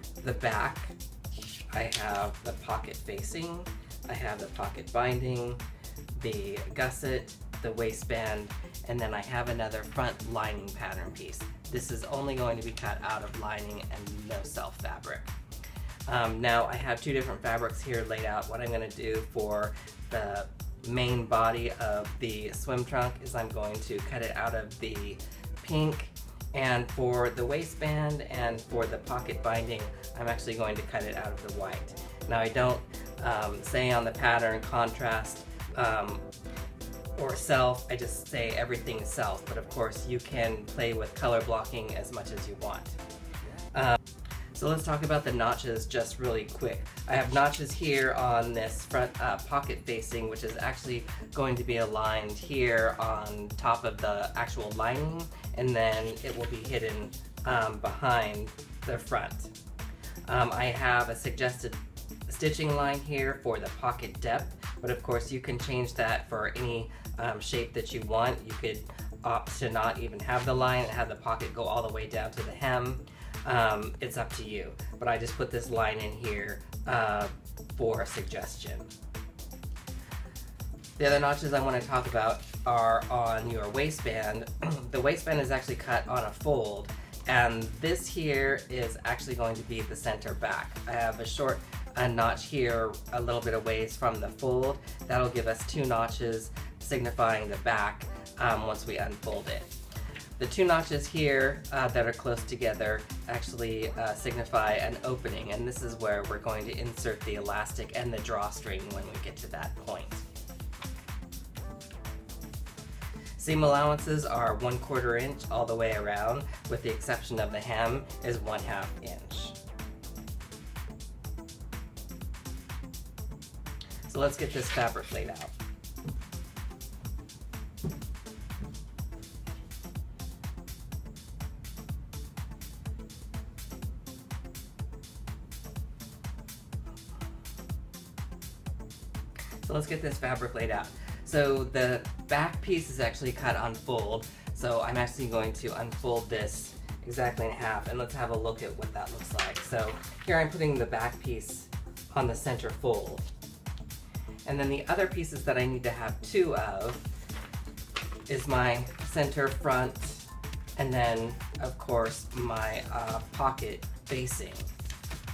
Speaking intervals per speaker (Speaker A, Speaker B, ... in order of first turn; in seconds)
Speaker A: 0.2-0.9, 1.7-5.6, 6.2-15.3, 16.1-36.2, 37.2-43.0, 43.7-44.0, 44.5-59.5, 60.3-78.9, 81.0-99.7, 100.4-110.2, 113.4-119.6, 124.1-125.5, 139.7-153.2, 154.4-157.0, 158.3-160.2, 160.8-164.7